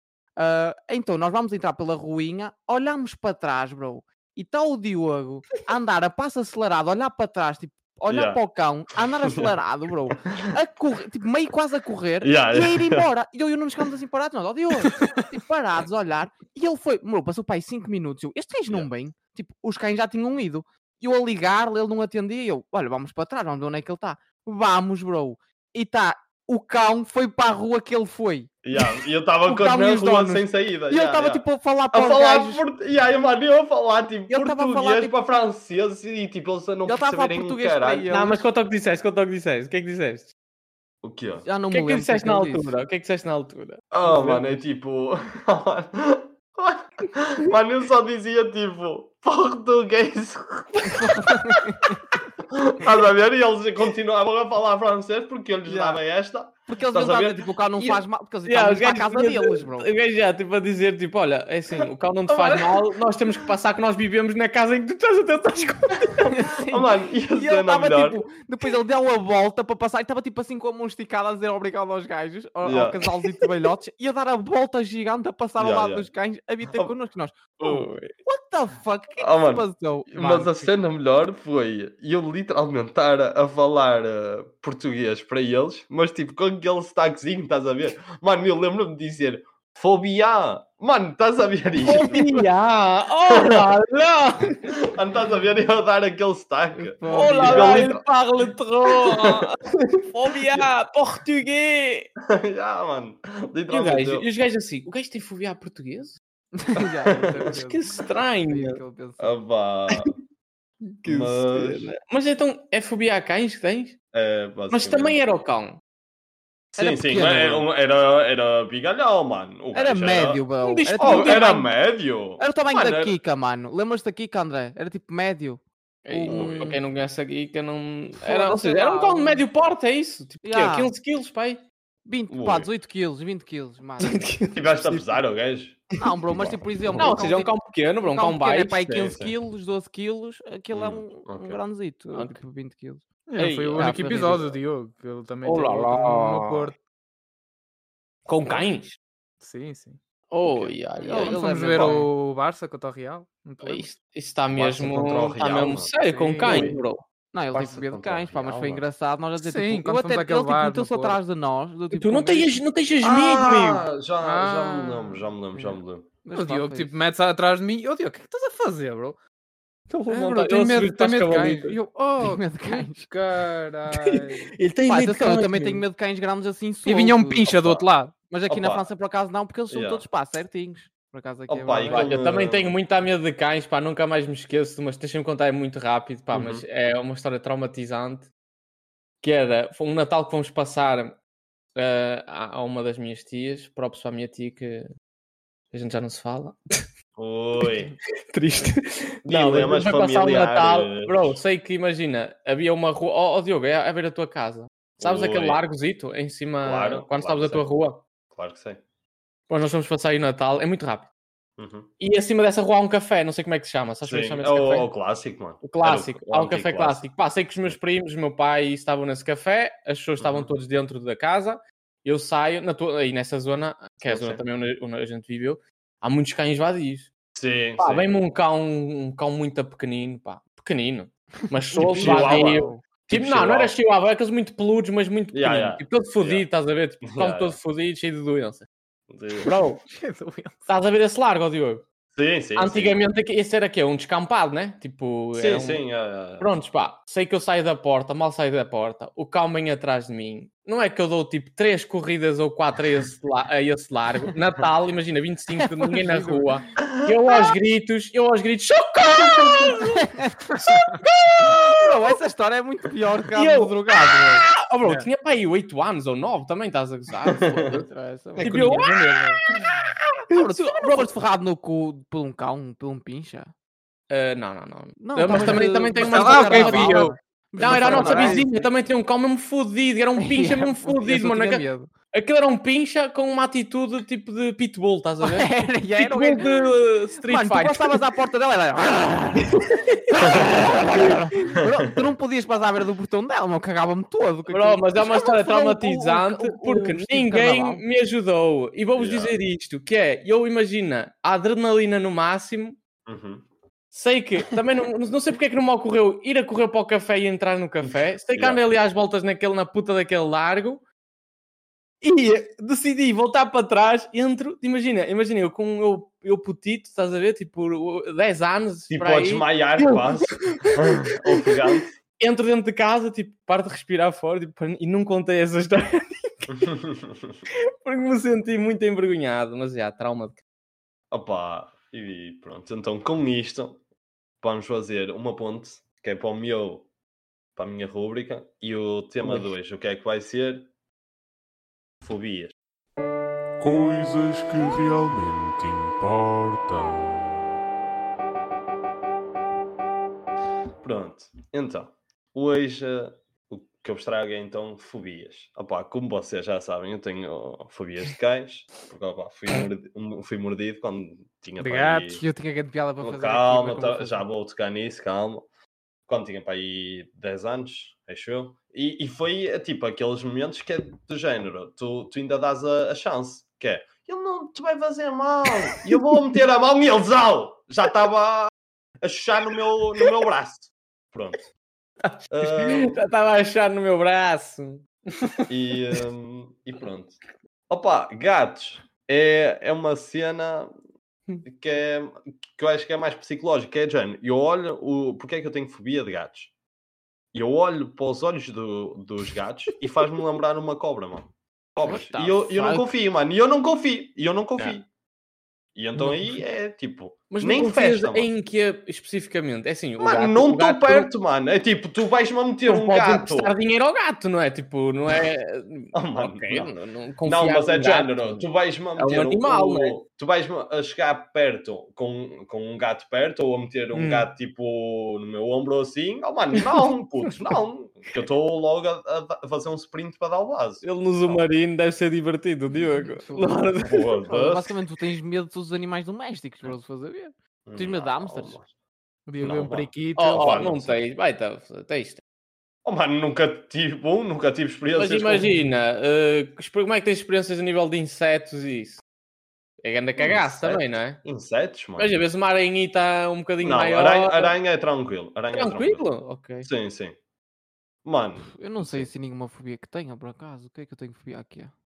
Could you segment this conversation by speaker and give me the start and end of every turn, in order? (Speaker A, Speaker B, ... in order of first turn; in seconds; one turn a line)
Speaker A: 0.4-32.6
Speaker B: 8.1-8.4
Speaker B: 12.2-13.1
Speaker B: 28.6-38.1
Speaker A: 34.3-35.1
Speaker A: 36.9-38.5
Speaker C: 38.1-40.3
Speaker B: 41.0-41.5
Speaker A: 41.4-42.8
Speaker C: 41.7-43.8
Speaker B: 43.9-51.6
Speaker A: 44.0-44.6
Speaker A: 50.9-52.0
Speaker B: 52.5-58.0
Speaker A: 55.7-56.0
Speaker A: 56.7-59.9
Speaker C: 58.5-66.3
Speaker A: 62.3-62.6
Speaker A: 66.2-80.8
Speaker B: 66.7-68.2
Speaker B: 72.6-73.1
Speaker B: 75.6-76.1
Speaker B: 77.6-77.9
Speaker B: 79.2-92.3
Speaker C: 91.8-94.7
Speaker B: 93.3-93.7
Speaker B: 94.7-98.0
Speaker A: 96.8-98.0
Speaker C: 97.1-102.1
Speaker B: 99.0-99.4
Speaker B: 102.3-104.3
Speaker C: 103.7-106.2
Speaker A: 106.6-107.8
Speaker B: 107.1-107.4
Speaker C: 107.5-108.8
Speaker A: 108.5-109.4
Speaker B: 109.2-110.2
Speaker C: 111.0-114.0
Speaker B: 111.0-111.9
Speaker B: 114.1-115.2
Speaker C: 114.7-115.8
Speaker B: 116.7-120.4
Speaker A: 116.8-117.7
Speaker A: 119.7-121.7
Speaker C: 120.6-121.5
Speaker B: 121.0-123.2
Speaker A: 122.4-126.8
Speaker C: 126.1-131.7
Speaker B: 126.3-126.8
Speaker A: 128.2-129.4
Speaker A: 130.4-130.9
Speaker A: 132.1-134.3
Speaker B: 132.3-132.7
Speaker C: 134.1-135.1
Speaker B: 134.5-137.2
Speaker A: 136.0-137.6
Speaker C: 137.0-138.8
Speaker A: 138.1-143.0
Speaker B: 138.9-139.3
Speaker B: 140.7-141.6
Speaker C: 142.1-142.4
Speaker D: 143.3-146.8
Speaker C: 143.4-144.4
Speaker A: 143.8-144.5
Speaker C: 145.4-146.7
Speaker C: 148.3-149.0
Speaker D: 149.4-150.0
Speaker C: 150.3-152.0
Speaker A: 151.0-152.1
Speaker D: 151.1-153.9
Speaker C: 153.6-157.0
Speaker B: 154.5-155.9
Speaker A: 156.1-156.8
Speaker D: 156.2-156.6
Speaker B: 156.5-156.8
Speaker A: 157.3-162.6
Speaker B: 157.5-158.8
Speaker D: 159.4-161.2
Speaker C: 161.9-163.9
Speaker B: 163.0-166.1
Speaker D: 164.2-165.3
Speaker A: 165.5-166.9
Speaker D: 166.3-169.2
Speaker C: 169.9-171.8
Speaker D: 170.1-174.5
Speaker A: 172.2-173.1
Speaker C: 174.0-175.8
Speaker A: 174.9-177.5
Speaker D: 176.8-178.1
Speaker B: 177.5-177.8
Speaker A: 178.3-182.1
Speaker B: 178.5-178.8
Speaker B: 179.7-180.0
Speaker B: 181.5-182.8
Speaker C: 181.9-188.3
Speaker B: 186.3-186.7
Speaker C: 189.2-191.2
Speaker C: 191.8-194.9
Speaker C: 195.7-196.6
Speaker B: 197.2-198.0
Speaker C: 198.3-208.0
Speaker B: 199.3-201.4
Speaker B: 205.0-205.6
Speaker B: 206.6-207.7
Speaker B: 208.3-208.8
Speaker C: 209.5-211.1
Speaker B: 211.6-211.9
Speaker C: 212.0-214.9
Speaker B: 214.1-217.0
Speaker C: 215.6-227.1
Speaker B: 220.2-220.5
Speaker B: 224.1-224.4
Speaker B: 227.3-228.1
Speaker C: 227.8-238.7
Speaker A: 231.7-232.8
Speaker B: 231.9-233.8
Speaker B: 235.3-236.5
Speaker B: 237.0-237.6
Speaker B: 239.1-239.5
Speaker C: 239.4-239.8
Speaker D: 239.9-240.6
Speaker C: 240.7-241.8
Speaker B: 242.2-243.0
Speaker C: 242.6-245.8
Speaker B: 245.3-246.5
Speaker C: 246.4-260.1
Speaker D: 256.0-256.5
Speaker A: 259.8-260.9
Speaker C: 260.6-261.7
Speaker A: 261.4-264.5
Speaker C: 263.4-267.8
Speaker A: 267.3-268.8
Speaker B: 267.3-267.7
Speaker D: 268.4-269.4
Speaker C: 268.4-269.0
Speaker A: 270.3-273.5
Speaker C: 270.3-271.1
Speaker C: 274.1-288.0
Speaker A: 275.0-278.7
Speaker D: 275.3-278.5
Speaker A: 280.2-281.9
Speaker A: 285.2-297.8
Speaker C: 289.9-290.4
Speaker C: 294.5-302.8
Speaker B: 299.0-299.4
Speaker B: 303.1-303.5
Speaker C: 303.9-310.8
Speaker B: 307.9-308.6
Speaker C: 312.0-321.0
Speaker B: 318.9-321.9
Speaker C: 322.2-326.5
Speaker B: 326.5-327.4
Speaker C: 327.8-330.4
Speaker B: 331.1-333.8
Speaker B: 334.4-336.9
Speaker B: 337.6-340.7
Speaker B: 342.0-342.5
Speaker E: 343.6-347.5
Speaker B: 350.8-362.2
Speaker D: 361.6-362.2
Speaker A: 362.2-364.2
Speaker B: 363.0-365.5
Speaker B: 366.1-378.5
Speaker B: 379.0-381.5
Speaker C: 382.1-385.2
Speaker B: 382.3-383.0
Speaker B: 385.5-387.2
Speaker B: 387.7-390.7
Speaker B: 391.4-396.5
Speaker B: 397.3-404.9
Speaker A: 401.8-402.9
Speaker B: 405.8-408.3
Speaker C: 407.3-411.1
Speaker B: 410.0-413.5
Speaker C: 412.7-420.0
Speaker B: 415.9-416.7
Speaker B: 417.2-431.4
Speaker C: 423.9-424.3
Speaker C: 430.8-434.1
Speaker A: 433.1-433.5
Speaker B: 433.8-434.7
Speaker A: 434.3-438.6
Speaker B: 437.7-438.7
Speaker D: 439.3-440.7
Speaker B: 439.4-441.0
Speaker C: 440.1-442.2
Speaker B: 442.9-445.6
Speaker C: 444.9-449.0
Speaker C: 449.8-451.2
Speaker B: 450.2-452.1
Speaker C: 452.0-454.6
Speaker B: 453.6-456.1
Speaker C: 455.5-456.7
Speaker B: 456.6-457.1
Speaker B: 458.0-459.1
Speaker A: 458.5-461.7